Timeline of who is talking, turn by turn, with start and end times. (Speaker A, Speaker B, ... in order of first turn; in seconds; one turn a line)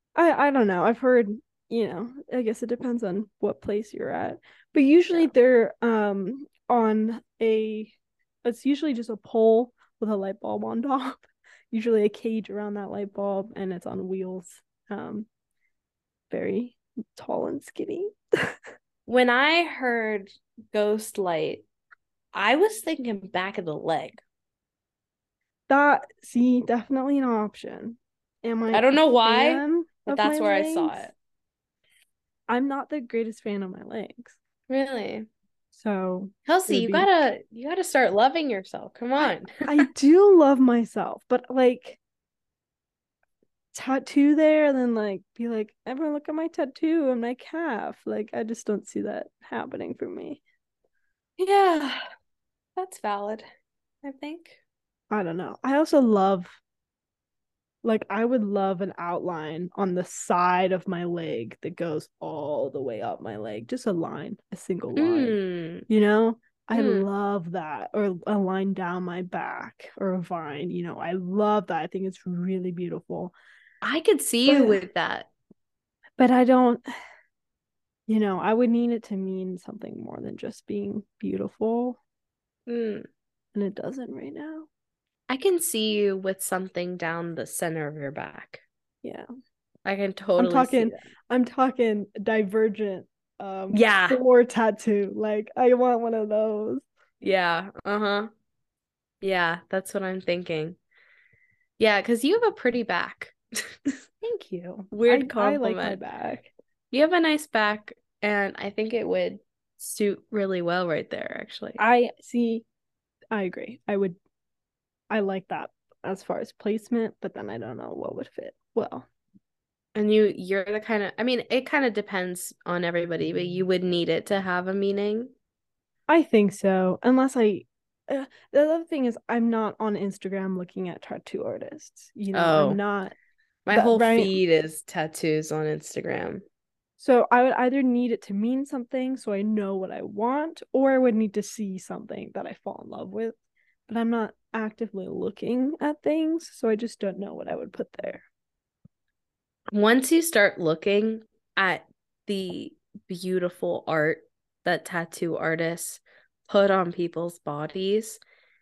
Speaker A: 0.1-15.3
Speaker A: 16.3-18.6
Speaker B: 19.1-21.6
Speaker B: 22.3-24.2
Speaker A: 25.7-31.1
Speaker B: 28.7-31.1
Speaker A: 32.5-34.4
Speaker B: 34.7-35.3
Speaker A: 35.7-37.1
Speaker B: 36.5-39.6
Speaker A: 39.2-42.0
Speaker A: 43.7-50.4
Speaker B: 51.4-52.0
Speaker B: 52.8-53.5
Speaker B: 54.0-54.6
Speaker A: 55.1-56.6
Speaker A: 57.8-73.3
Speaker B: 65.0-65.9
Speaker B: 66.7-67.1
Speaker B: 73.8-75.3
Speaker A: 74.5-74.8
Speaker A: 76.2-76.8
Speaker A: 78.1-82.0
Speaker B: 82.7-83.1
Speaker A: 83.5-84.7
Speaker B: 85.3-88.6
Speaker B: 89.8-90.9
Speaker A: 90.4-96.8
Speaker B: 93.7-94.2
Speaker B: 97.2-98.3
Speaker B: 99.2-100.8
Speaker B: 101.8-104.0
Speaker A: 104.2-106.5
Speaker B: 104.9-106.0
Speaker B: 106.9-111.8
Speaker A: 111.8-112.6
Speaker A: 113.3-114.2
Speaker A: 115.1-119.1
Speaker B: 119.9-125.3
Speaker A: 126.1-133.1
Speaker B: 132.3-132.8
Speaker B: 133.7-136.4
Speaker A: 133.7-134.3
Speaker A: 137.0-143.3
Speaker A: 143.9-148.2
Speaker B: 149.7-158.2